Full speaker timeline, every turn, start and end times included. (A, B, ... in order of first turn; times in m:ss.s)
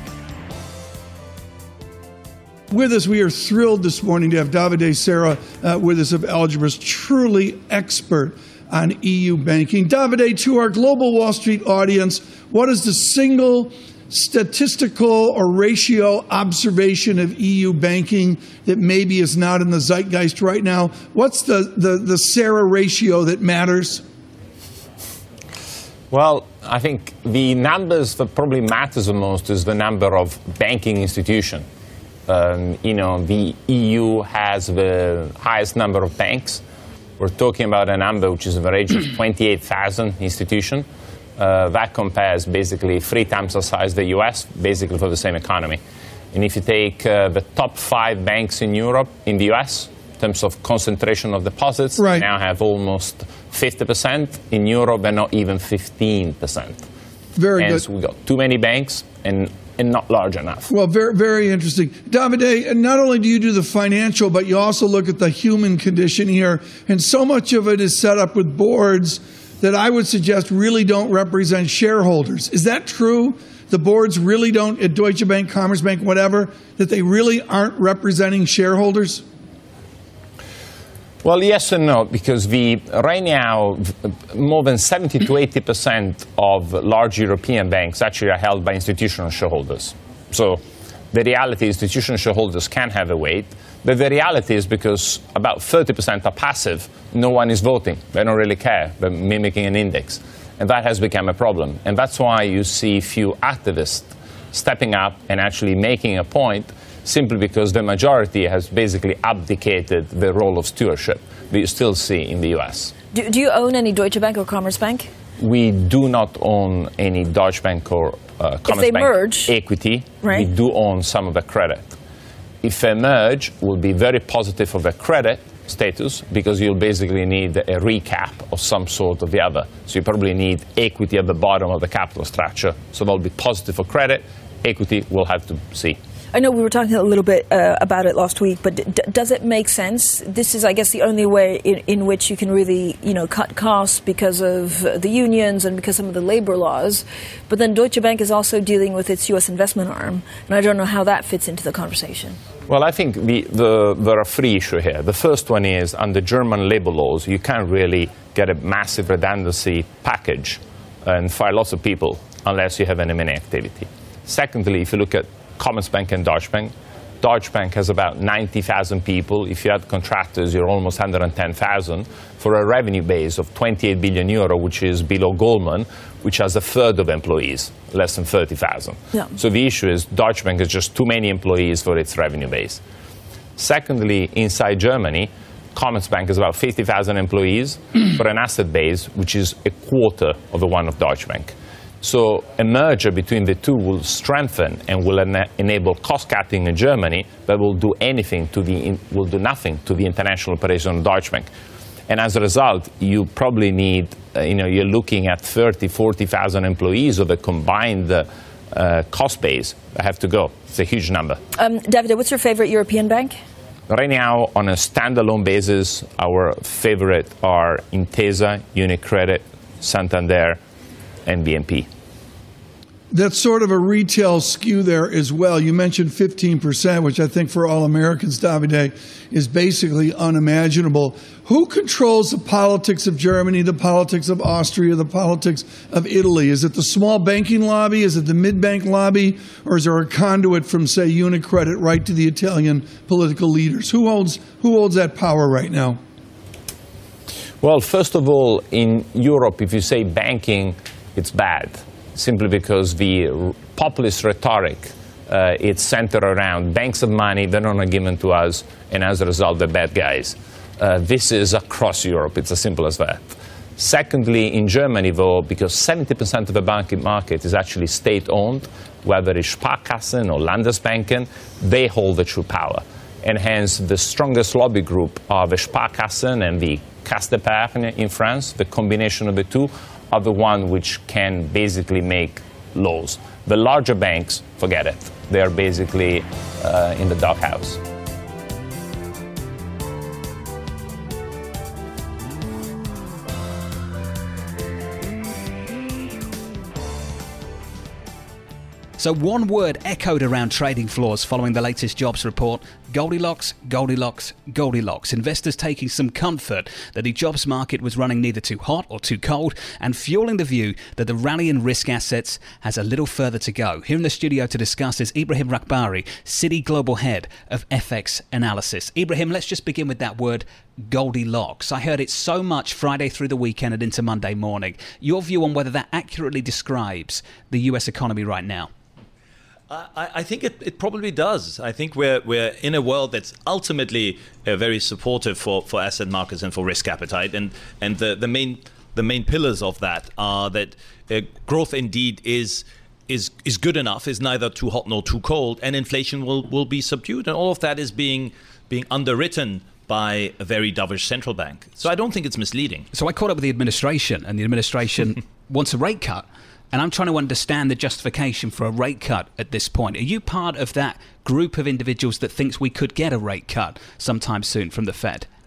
0:02.7-0:24.0 A
0:26.1-0:31.6 B
0:32.3-0:36.6 B
0:37.2-0:40.9 B
0:41.4-0:45.8 B
0:46.3-0:56.9 B
0:52.0-0:52.3 A
0:57.4-0:57.8 A
0:57.6-1:00.7 B
1:00.7-1:19.3 A
1:21.2-1:52.9 B
1:53.1-1:55.1 C
1:55.4-2:02.0 B
1:58.7-1:59.5 C
2:02.6-2:16.0 B
2:16.3-2:32.4 C
2:32.7-3:02.8 B
3:03.6-3:21.5 B
3:22.1-3:31.4 B
3:31.6-3:33.3 C
3:33.9-3:40.6 B
3:41.2-3:41.9 B
3:43.1-4:06.0 A
4:07.6-4:47.8 B
4:59.0-5:28.7 D
5:29.7-5:52.9 E
5:52.9-6:05.3 D